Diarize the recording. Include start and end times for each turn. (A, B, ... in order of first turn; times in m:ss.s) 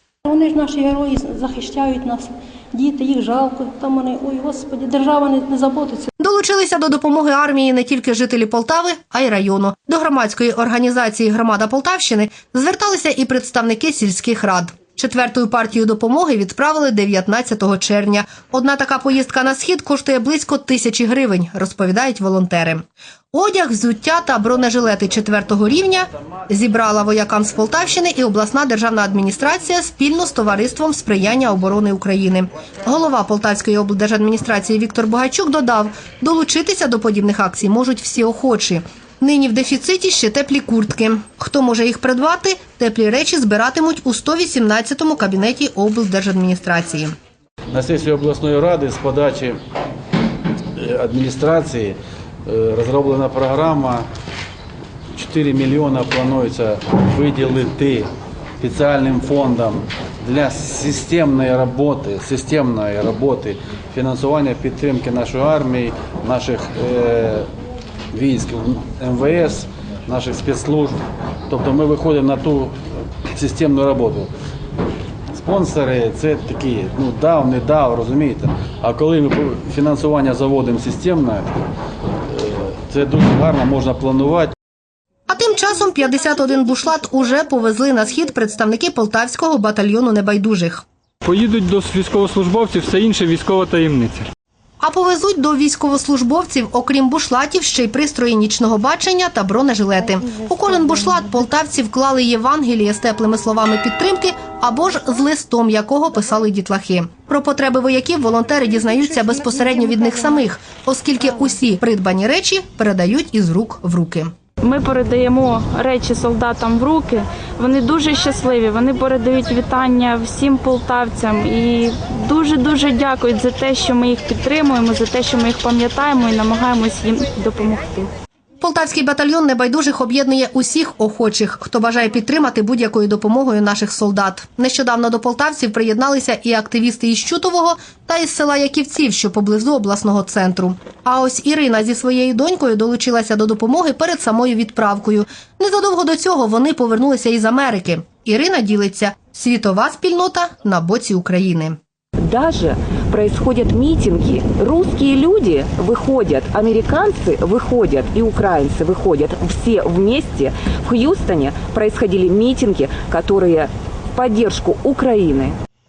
0:00.2-0:06.1 A
0:06.2-0:47.1 B
0:47.7-0:49.6 C
0:50.8-0:54.0 C
0:55.1-0:58.1 C
0:58.6-1:07.5 C
1:08.1-1:14.3 C
1:15.3-1:21.6 C
1:22.3-1:24.5 C
1:25.3-1:30.8 B
1:31.2-1:34.3 D
1:34.8-1:54.3 B
1:54.6-2:08.1 E
2:08.6-2:31.8 B
2:32.2-2:45.6 F